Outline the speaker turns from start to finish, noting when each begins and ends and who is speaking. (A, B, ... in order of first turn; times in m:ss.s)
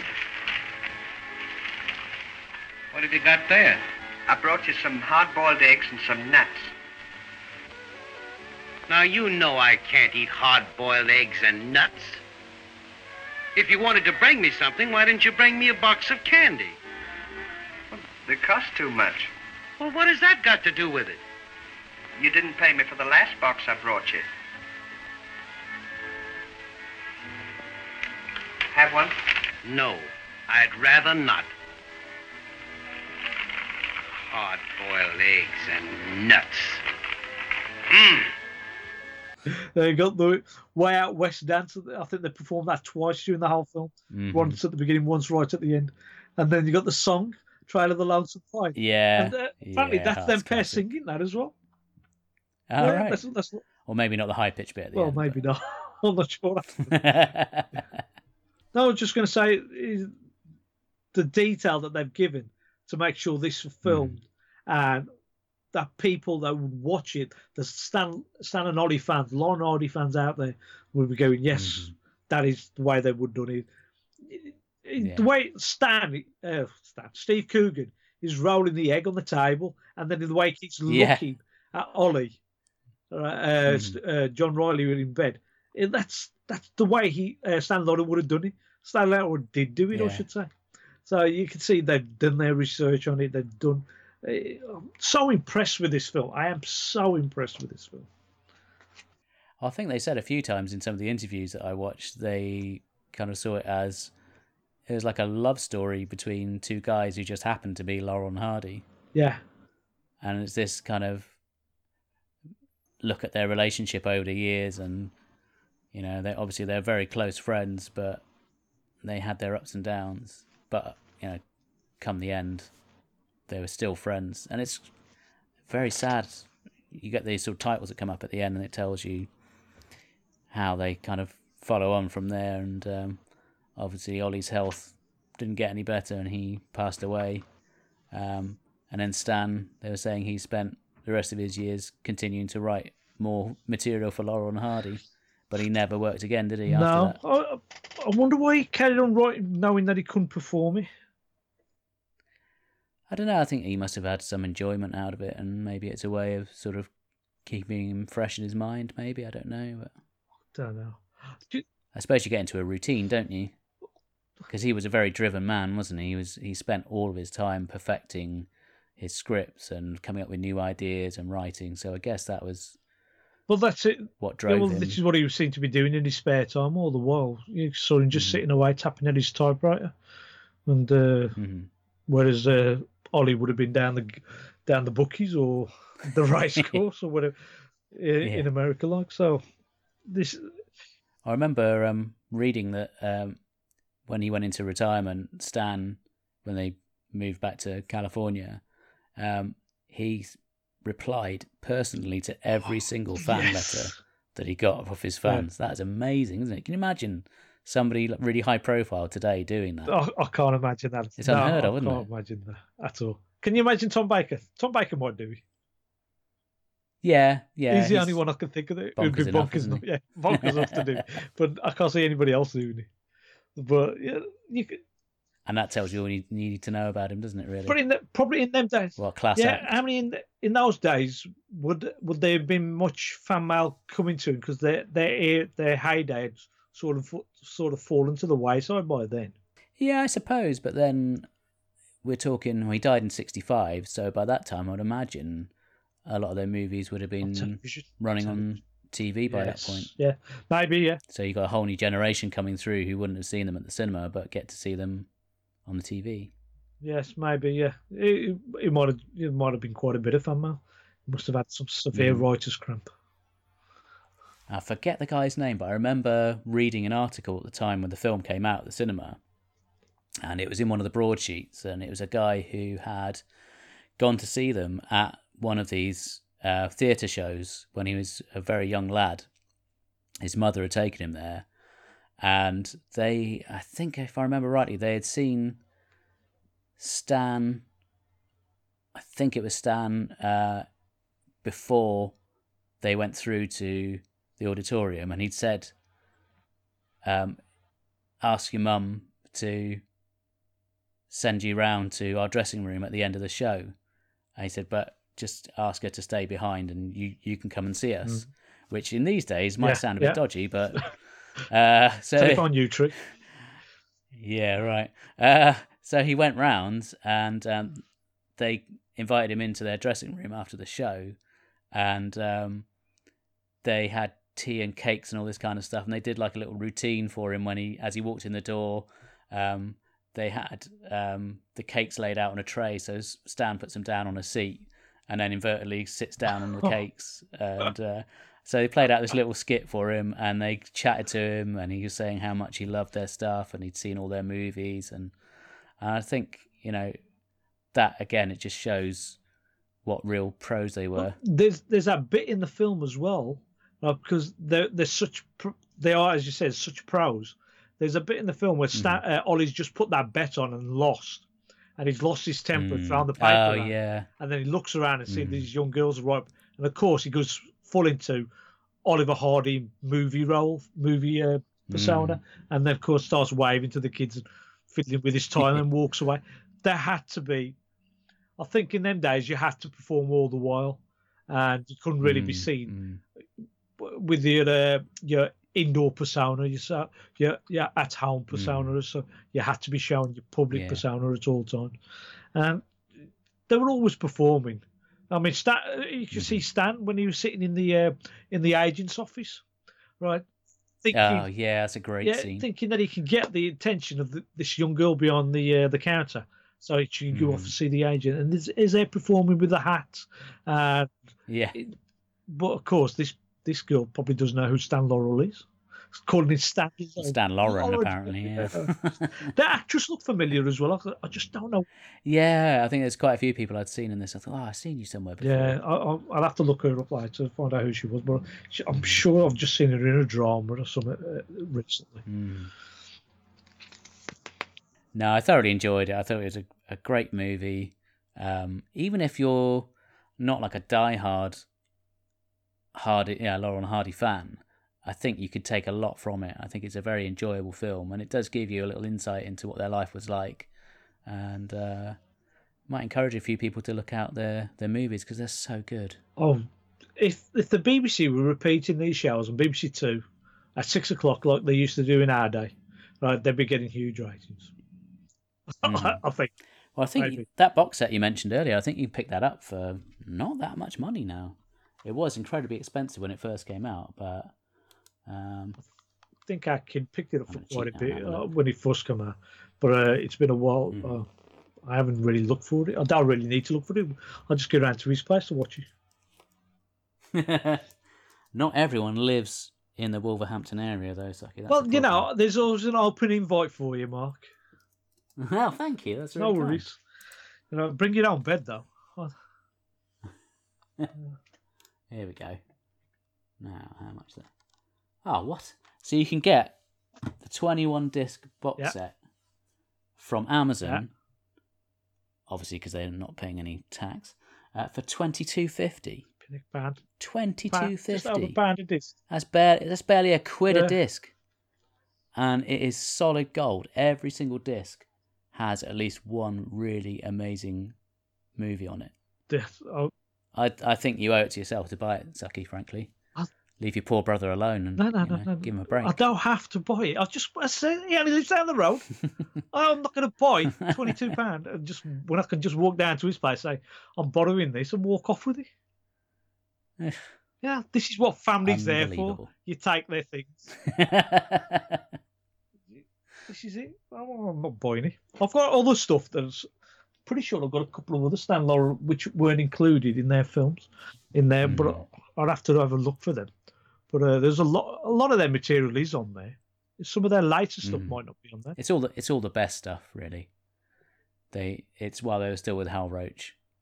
0:03.0-0:03.8 A
0:04.3-0:06.7 B
0:08.9-0:12.2 A
0:13.6-0:16.8 A
0:17.9-0:19.3 B
0:19.8-0:21.2 A
0:22.2-0:24.3 B
0:28.7-0:29.2 B
0:29.6-0:31.5 A
0:34.3-0:36.8 A
0:37.9-0:38.3 A
0:39.5-0:51.5 C
0:44.1-0:44.6 D
0:48.8-0:50.8 D
0:52.7-0:53.2 D
0:52.8-0:53.6 C
0:53.8-0:55.4 D
0:55.0-0:57.0 C
0:56.9-0:57.8 D
0:58.7-1:00.1 C
1:01.1-1:05.1 C
1:03.8-1:04.2 D
1:05.7-1:13.7 C
1:11.5-1:11.9 D
1:14.2-1:22.4 C
1:15.0-1:15.3 D
1:20.9-1:21.2 D
1:23.1-1:30.5 C
1:23.7-1:24.0 D
1:29.9-1:30.2 D
1:31.1-1:38.1 C
1:39.6-1:44.1 D
1:44.9-1:48.8 D
1:49.1-1:49.4 C
1:50.2-1:51.3 D
1:53.0-1:55.1 D
1:55.9-1:58.2 D
1:59.0-2:01.4 D
2:02.0-2:02.7 D
2:03.5-2:04.9 D
2:05.7-2:09.3 D
2:10.5-2:13.2 D
2:13.8-2:17.5 D
2:18.1-2:27.2 D
2:26.7-2:30.9 C
2:33.1-2:36.9 D
2:37.4-2:39.9 D
2:40.5-2:41.6 C
2:41.9-2:43.5 D
2:44.5-2:52.8 D
2:53.5-2:59.9 C
2:54.2-2:55.0 D
2:58.1-2:58.4 D
3:00.7-3:01.4 C
3:01.4-3:01.7 D
3:02.1-3:07.4 C
3:07.9-3:09.4 C
3:10.1-3:10.5 C
3:11.2-3:13.4 D
3:14.1-3:18.6 D
3:19.2-3:29.9 D
3:23.2-3:23.9 C
3:29.9-3:35.4 C
3:31.2-3:32.0 D
3:37.0-3:38.2 D
3:37.7-3:42.9 C
3:39.0-3:41.0 D
3:43.6-3:44.8 C
3:45.5-3:47.8 D
3:47.7-3:59.3 C
3:49.0-3:49.7 D
3:59.8-4:01.3 D
4:02.0-4:05.5 D
4:06.1-4:09.9 D
4:07.2-4:08.5 C
4:09.3-4:11.0 C
4:11.1-4:15.1 D
4:15.7-4:16.3 D
4:16.8-4:22.9 C
4:21.9-4:22.2 D
4:24.5-4:29.2 D
4:30.2-4:33.2 D
4:34.0-4:39.3 D
4:40.2-4:41.5 D
4:42.2-4:45.6 D
4:46.8-4:47.6 D
4:49.0-4:50.7 D
4:51.4-4:52.2 D
4:52.8-4:55.7 D
4:57.0-4:57.4 D
4:58.2-4:59.8 D
5:01.1-5:03.7 D
5:04.4-5:11.0 D
5:09.6-5:10.2 C
5:11.5-5:12.5 D
5:12.2-5:13.0 C
5:14.1-5:17.8 D
5:18.4-5:21.2 D
5:21.7-5:22.7 D
5:23.6-5:45.1 D
5:45.8-5:47.0 D
5:47.7-5:49.2 D
5:49.8-5:51.2 D
5:51.0-6:01.3 C
5:58.7-5:59.0 D
6:01.8-6:08.3 C
6:02.6-6:04.1 D
6:05.1-6:05.5 D
6:08.8-6:17.6 C
6:11.7-6:12.2 D
6:18.4-6:22.8 C
6:22.0-6:23.0 D
6:23.8-6:31.8 C
6:28.3-6:28.7 D
6:30.5-6:30.8 D
6:32.4-6:32.6 C
6:33.5-6:39.4 C
6:36.1-6:36.4 D
6:40.0-6:40.3 C
6:40.8-6:41.3 C
6:40.9-6:42.5 D
6:42.0-6:50.9 C
6:47.1-6:47.5 D
6:51.3-6:51.6 D
6:52.3-7:01.7 C
6:57.0-6:59.3 D
7:02.0-7:05.6 D
7:05.2-7:12.1 C
7:12.1-7:12.5 D
7:14.9-7:21.4 D
7:22.7-7:30.5 D
7:31.1-7:32.0 D
7:32.7-7:36.0 D
7:36.2-7:36.5 C
7:37.0-7:40.0 C
7:40.6-7:44.5 C
7:45.6-7:46.3 C
7:45.6-7:46.0 D
7:46.8-7:54.3 D
7:47.0-7:47.2 C
7:55.1-7:55.6 D
7:56.3-8:01.1 C
7:57.3-7:58.3 D
8:01.7-8:05.7 C
8:07.1-8:07.7 D
8:08.3-8:12.1 D
8:11.5-8:14.3 C
8:15.2-8:16.7 D
8:16.2-8:16.8 C
8:17.5-8:19.1 C
8:21.9-8:22.4 D
8:23.4-8:24.3 D
8:25.0-8:26.6 D
8:27.2-8:29.0 D
8:30.0-8:30.9 D
8:32.3-8:36.1 D
8:36.2-8:36.8 C
8:37.0-8:38.4 D
8:37.5-8:39.0 C
8:39.1-8:41.1 D
8:40.5-8:40.8 C
8:42.2-8:47.8 D
8:48.4-8:48.9 D
8:49.3-8:49.9 C
8:50.3-8:52.9 D
8:53.6-8:56.0 D
8:54.8-8:58.9 C
8:59.5-9:05.5 C
9:06.8-9:07.1 D
9:07.4-9:10.5 C
9:08.4-9:09.3 D
9:10.7-9:11.8 D
9:13.3-9:16.5 C
9:17.1-9:23.3 C
9:21.4-9:21.8 D
9:23.9-9:28.6 C
9:27.6-9:28.0 D
9:28.6-9:30.3 D
9:31.3-9:33.4 D